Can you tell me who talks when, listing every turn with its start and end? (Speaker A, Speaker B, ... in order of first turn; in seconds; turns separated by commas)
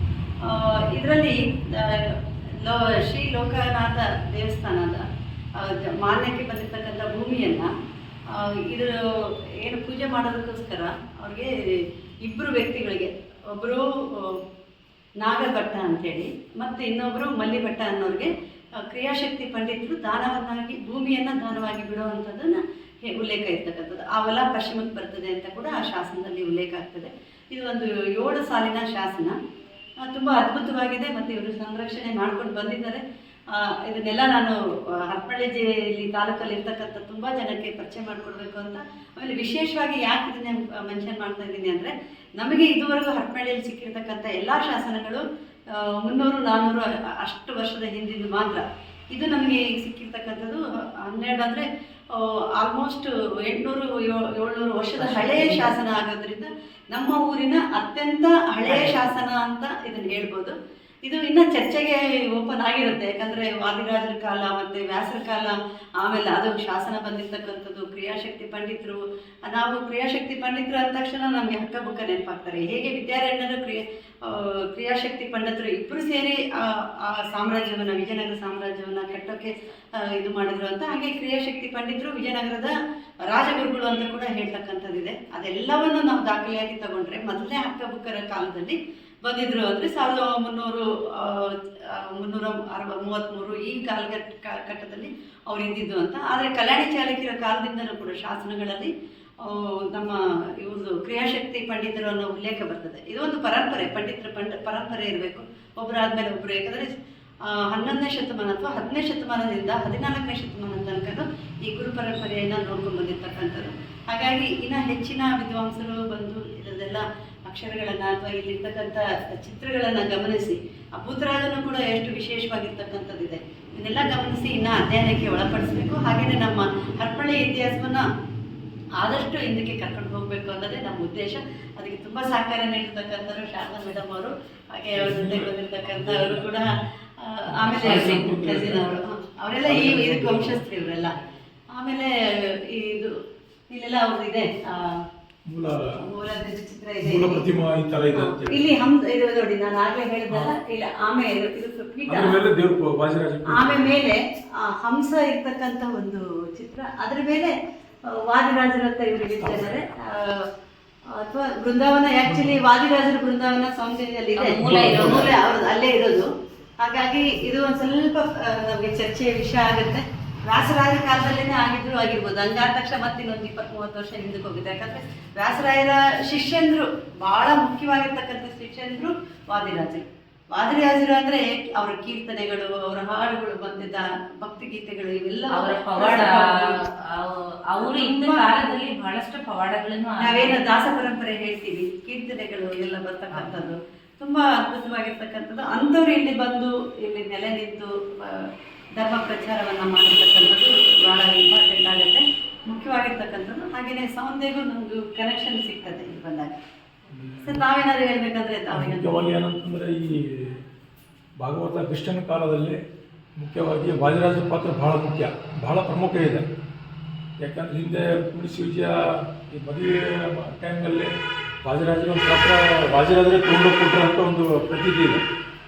Speaker A: 0.4-5.0, Speaker A: 5.6-7.7, Speaker A: 8.3-14.4, Speaker A: 15.2-18.3, Speaker A: 18.8-29.4, Speaker A: 30.1-82.7, Speaker B: 55.0-55.7, Speaker B: 58.6-59.1, Speaker A: 83.2-98.9, Speaker A: 99.4-106.9, Speaker A: 107.5-128.1, Speaker A: 129.0-141.2, Speaker C: 134.9-136.8, Speaker C: 137.5-139.0, Speaker B: 137.8-138.3, Speaker C: 139.5-140.7, Speaker A: 141.7-145.1, Speaker C: 145.4-146.0, Speaker A: 146.0-147.4, Speaker C: 147.0-148.8, Speaker A: 148.1-152.4, Speaker C: 150.3-150.6, Speaker C: 152.1-153.9, Speaker A: 153.5-157.6, Speaker A: 158.1-160.5, Speaker C: 159.4-159.8, Speaker A: 161.1-166.3, Speaker C: 162.2-162.6, Speaker B: 164.3-165.3, Speaker C: 164.6-165.3, Speaker A: 166.8-186.8, Speaker B: 185.5-190.6, Speaker A: 187.8-188.7, Speaker A: 190.2-206.5, Speaker B: 193.3-193.6, Speaker C: 207.1-207.6, Speaker A: 207.4-209.2, Speaker C: 208.7-210.6, Speaker C: 211.4-212.8, Speaker C: 213.4-216.5, Speaker C: 217.4-225.2